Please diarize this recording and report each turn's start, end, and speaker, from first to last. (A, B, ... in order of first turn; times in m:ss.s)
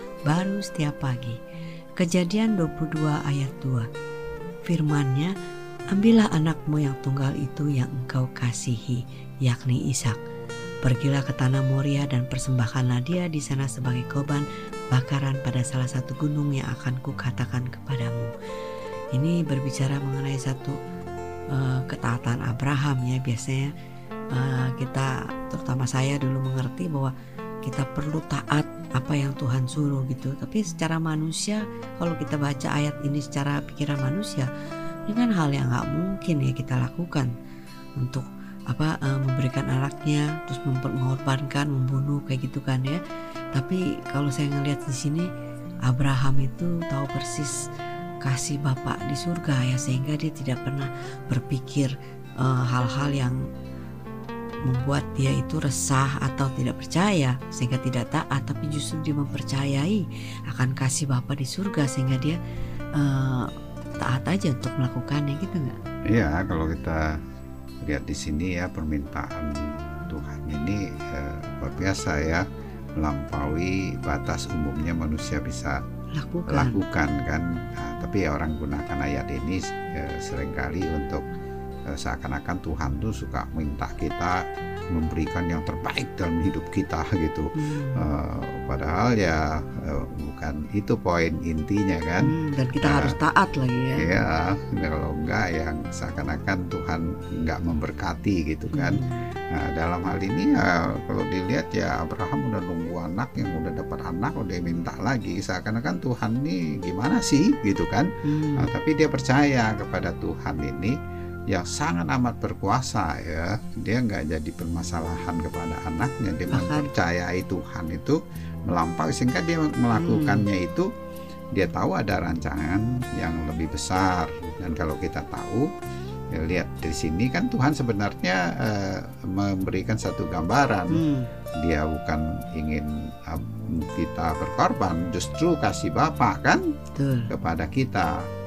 0:00.3-0:01.4 A
0:02.0-0:03.9 A
0:04.7-0:05.3 A
0:05.9-0:10.2 A
0:10.9-0:18.3 A
0:19.1-0:20.8 A
0:21.5-0:23.7 A
0:24.3-0:27.1 A
0:27.7-0:34.5 A
0:35.1-0:37.3 A
0:38.0-0:43.0 A
0:43.6-0:45.3 A
0:45.9-0:47.6 A
0:48.2-0:53.4 A
0:54.7-1:02.4 A
1:03.0-1:03.5 A
1:04.0-1:05.8 A
1:06.1-1:07.1 B
1:07.8-1:12.4 B
1:13.0-1:15.8 B
1:16.1-1:16.8 A
1:16.5-1:21.2 B
1:21.9-1:24.4 B
1:24.9-1:32.3 B
1:27.6-1:28.0 A
1:32.2-1:34.0 A
1:32.8-1:33.1 B
1:34.0-1:39.0 B
1:38.7-1:39.3 A
1:39.5-1:48.1 B
1:48.2-1:48.7 A
1:48.6-1:50.9 B
1:51.5-1:58.2 B
1:56.5-1:56.9 A
1:58.7-2:00.9 B
1:59.9-2:00.4 A
2:01.6-2:05.7 B
2:06.3-2:11.0 B
2:10.9-2:11.3 A
2:11.6-2:16.6 B
2:17.0-2:17.3 A
2:17.3-2:18.1 B